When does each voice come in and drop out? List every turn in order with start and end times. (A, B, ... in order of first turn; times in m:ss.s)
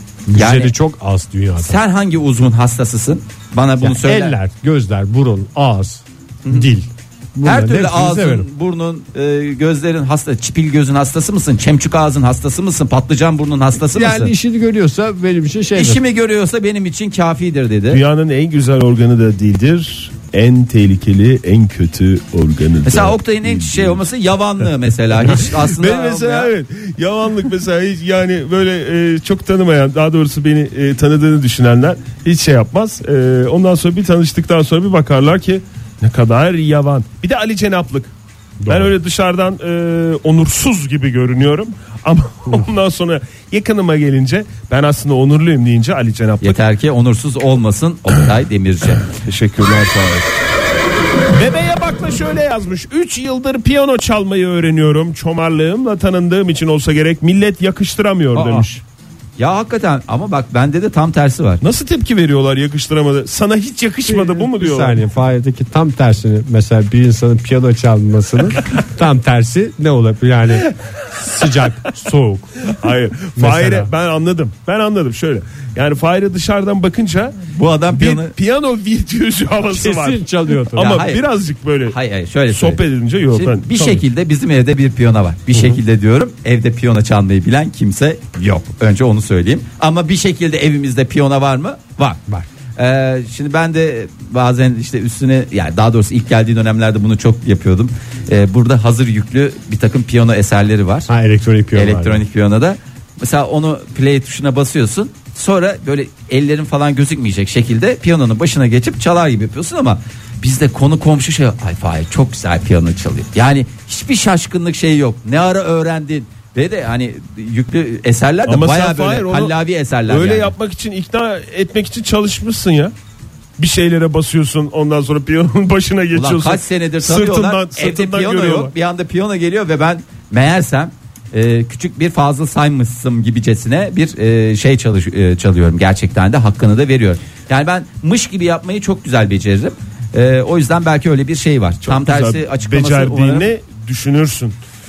0:00.3-0:01.8 A
0:00.3-0:00.7 B
0:01.6-0:04.3 B
0:03.8-0:08.5 A
0:07.4-0:14.3 B
0:13.8-0:16.0 A
0:15.7-0:18.0 B
0:17.9-0:24.0 C
0:22.8-0:26.5 B
0:25.2-0:38.1 C
0:38.6-0:38.9 A
0:38.7-0:46.6 C
0:46.4-0:49.0 B
0:49.1-0:50.4 C
0:51.3-0:58.8 C
0:58.3-0:58.7 A
0:59.4-1:01.6 B
1:01.6-1:05.0 C
1:04.0-1:12.7 A
1:12.7-1:17.4 C
1:13.4-1:13.9 A
1:17.5-1:18.3 B
1:17.9-1:22.0 C
1:19.7-1:20.9 A
1:20.8-1:21.2 B
1:21.9-1:22.8 B
1:22.5-1:24.0 C
1:23.3-1:32.2 B
1:25.5-1:25.8 A
1:32.8-1:41.1 B
1:41.1-1:42.2 A
1:41.7-2:00.5 B
1:58.5-1:59.5 C
2:00.1-2:02.9 C
2:03.6-2:08.7 C
2:06.1-2:23.5 B
2:21.8-2:24.5 C